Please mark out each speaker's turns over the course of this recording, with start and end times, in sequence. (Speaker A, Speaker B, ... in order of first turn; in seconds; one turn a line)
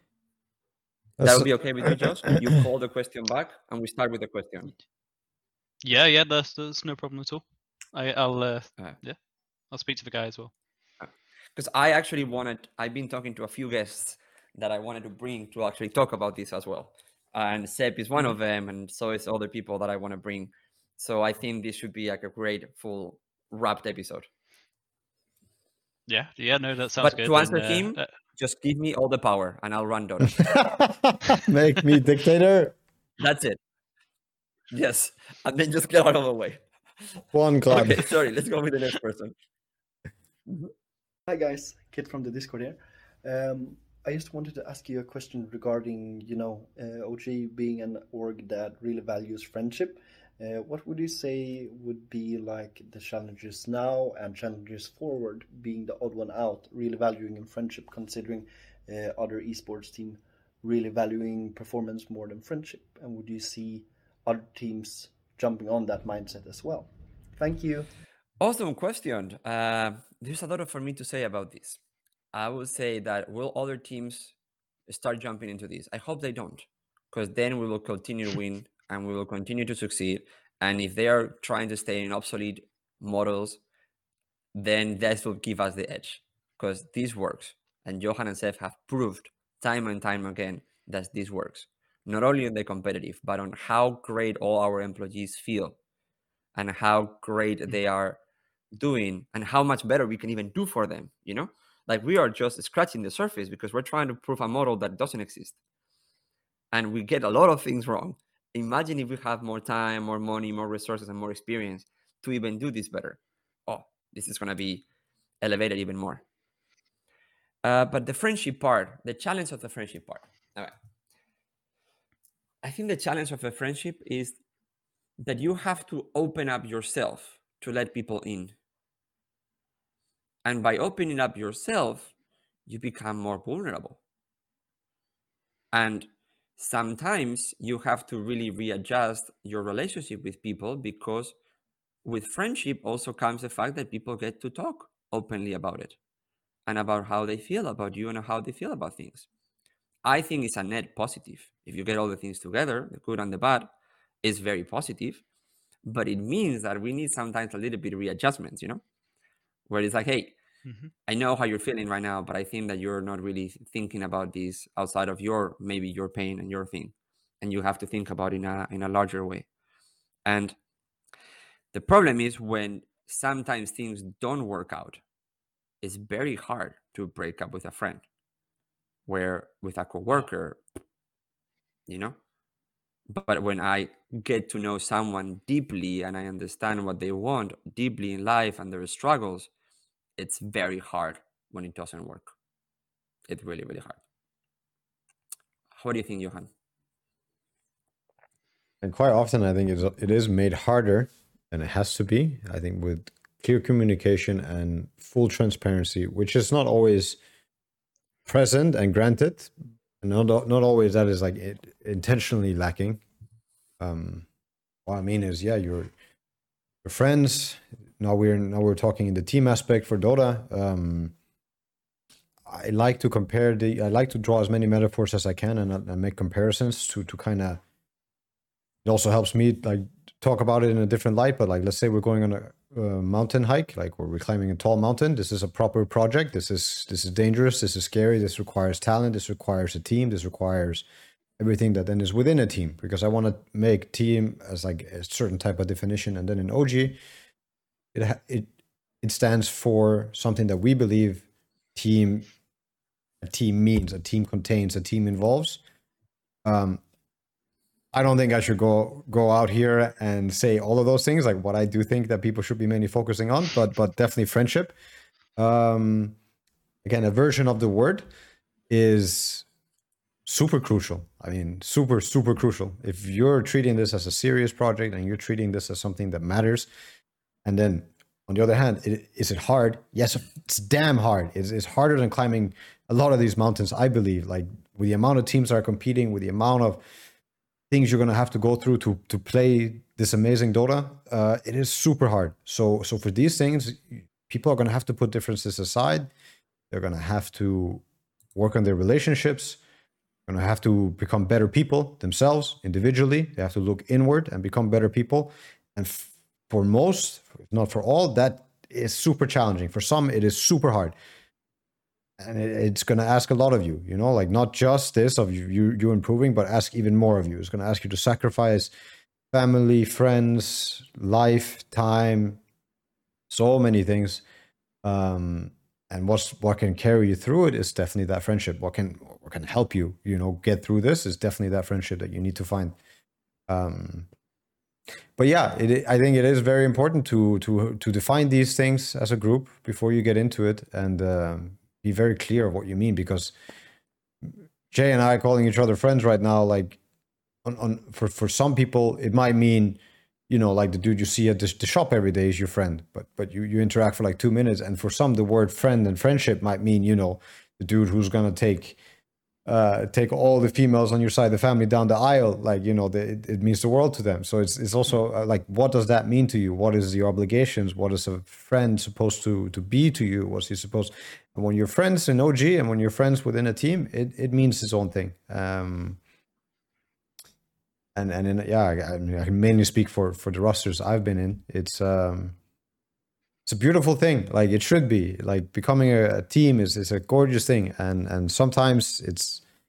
Speaker A: 1.2-2.4
Speaker B: 1.2-4.7
Speaker C: 5.8-9.2
Speaker C: 9.7-10.5
Speaker B: 11.0-24.3
Speaker C: 26.1-28.1
Speaker B: 27.0-30.4
Speaker A: 30.4-32.7
Speaker B: 33.2-33.6
Speaker B: 34.7-36.6
Speaker A: 37.3-38.1
Speaker B: 37.7-39.3
Speaker D: 41.3-67.9
Speaker B: 68.4-71.8
Speaker B: 72.3-74.3
Speaker B: 74.9-83.6
Speaker B: 84.5-95.8
Speaker B: 96.5-98.2
Speaker B: 98.7-105.6
Speaker B: 106.7-114.8
Speaker B: 115.4-116.2
Speaker B: 117.6-120.7
Speaker B: 122.6-124.4
Speaker B: 125.2-128.5
Speaker B: 130.4-132.1
Speaker B: 132.7-134.0
Speaker B: 135.7-141.3
Speaker B: 142.0-146.0
Speaker B: 146.7-149.3
Speaker B: 150.0-153.7
Speaker B: 154.2-155.2
Speaker B: 155.8-158.8
Speaker B: 159.7-160.3
Speaker C: 160.6-160.9
Speaker B: 161.1-169.5
Speaker B: 170.2-170.6
Speaker B: 171.7-175.0
Speaker B: 175.8-178.0
Speaker B: 179.1-180.6
Speaker B: 181.9-182.2
Speaker B: 183.1-189.5
Speaker B: 190.2-192.3
Speaker B: 193.3-194.0
Speaker B: 195.8-196.5
Speaker A: 198.8-207.2
Speaker A: 208.3-213.0
Speaker A: 213.8-214.2
Speaker A: 214.8-215.9
Speaker A: 216.8-221.1
Speaker A: 222.4-227.6
Speaker A: 228.8-240.8
Speaker A: 241.4-247.0
Speaker A: 247.9-252.3
Speaker A: 253.2-255.6
Speaker A: 256.4-256.8
Speaker A: 257.9-264.7
Speaker A: 265.4-266.2
Speaker A: 266.8-268.1
Speaker A: 268.7-269.4
Speaker A: 270.2-276.7
Speaker A: 277.4-286.8
Speaker A: 287.7-296.1
Speaker A: 296.7-297.8
Speaker A: 298.3-299.6
Speaker A: 300.3-310.9
Speaker A: 312.2-318.7
Speaker A: 319.3-322.4
Speaker A: 323.3-324.2
Speaker A: 324.8-332.8
Speaker A: 333.5-334.1
Speaker A: 335.2-343.3
Speaker A: 344.2-346.8
Speaker A: 347.4-358.8
Speaker A: 359.4-376.0
Speaker A: 377.9-382.4
Speaker A: 383.4-389.4